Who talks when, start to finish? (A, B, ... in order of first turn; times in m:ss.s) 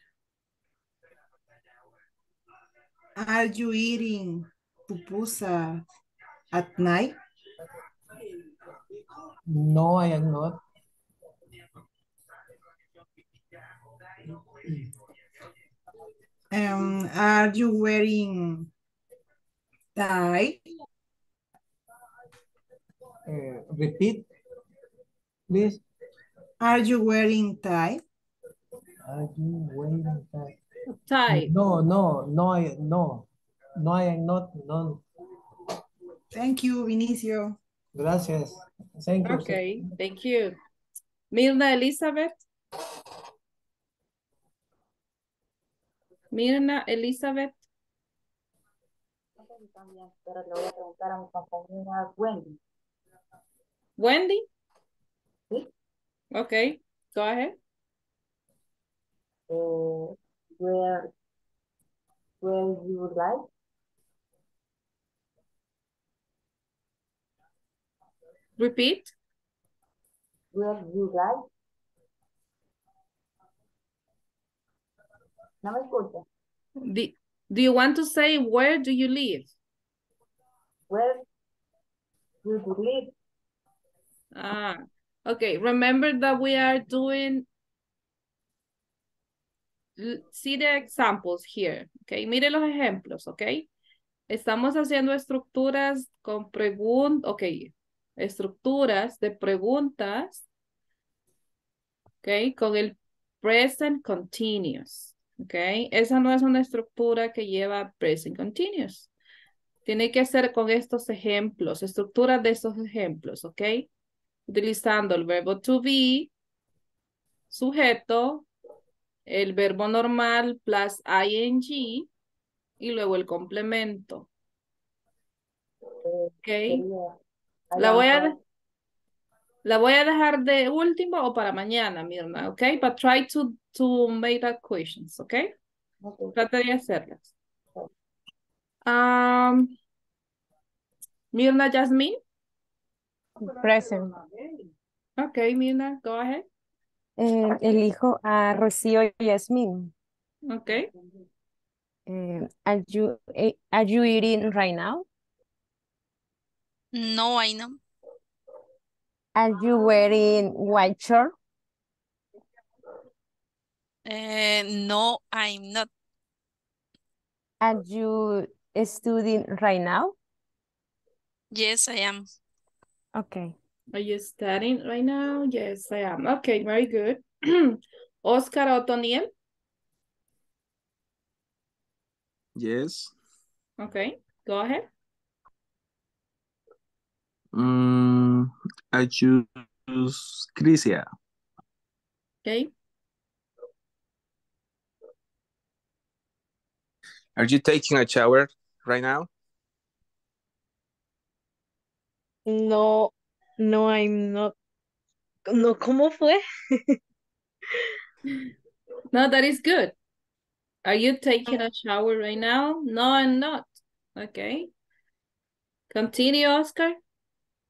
0:03.2-0:05.8 A
0:06.5-0:07.2 A
0:09.5-0:10.6 B
0:16.5-0:18.7 A
0:20.0-0:20.6 A
0:23.3-0:24.3 B
0:25.5-0:25.8 B
0:26.6-0:28.0 A
0:29.1-0:30.6 B
0:30.9-0:31.5 C
0:31.3-0:33.3 B
0:33.8-0:35.0 B
0:36.3-0:37.6 A
0:37.9-0:39.7 B
0:39.2-0:40.6 C
0:41.3-0:42.4 C
0:46.3-0:47.6 C
0:51.1-0:52.4 D
0:54.0-0:54.5 C
0:56.3-0:57.6 C
1:02.9-1:03.2 D
1:08.6-1:09.1 C
1:15.7-1:16.2 D
1:16.9-1:19.5 C
1:22.6-1:23.0 D
1:24.3-1:27.5 C
1:30.0-1:33.7 C
1:34.3-1:40.5 C
1:42.2-1:49.1 C
1:49.8-1:53.9 C
1:54.5-1:56.3 C
1:57.5-1:58.5 C
1:59.3-2:02.1 C
2:02.8-2:04.3 C
2:06.4-2:06.8 C
2:07.8-2:08.4 C
2:07.8-2:08.2 D
2:09.6-2:15.5 C
2:16.4-2:17.3 C
2:18.9-2:19.7 C
2:21.3-2:22.2 C
2:23.4-2:24.1 E
2:25.2-2:26.4 C
2:27.2-2:29.9 E
2:30.5-2:30.9 C
2:32.1-2:35.0 E
2:36.9-2:37.8 F
2:39.4-2:41.3 E
2:44.0-2:45.9 F
2:47.6-2:50.2 E
2:51.5-2:52.2 F
2:53.2-2:53.5 E
2:53.9-2:59.3 C
3:02.6-3:03.1 G
3:03.8-3:04.9 C
3:07.5-3:11.1 G
3:12.4-3:12.7 C
3:17.4-3:19.3 G
3:22.5-3:24.5 H
3:25.5-3:27.0 H
3:29.1-3:29.9 C
3:30.8-3:34.7 C
3:35.9-3:37.0 C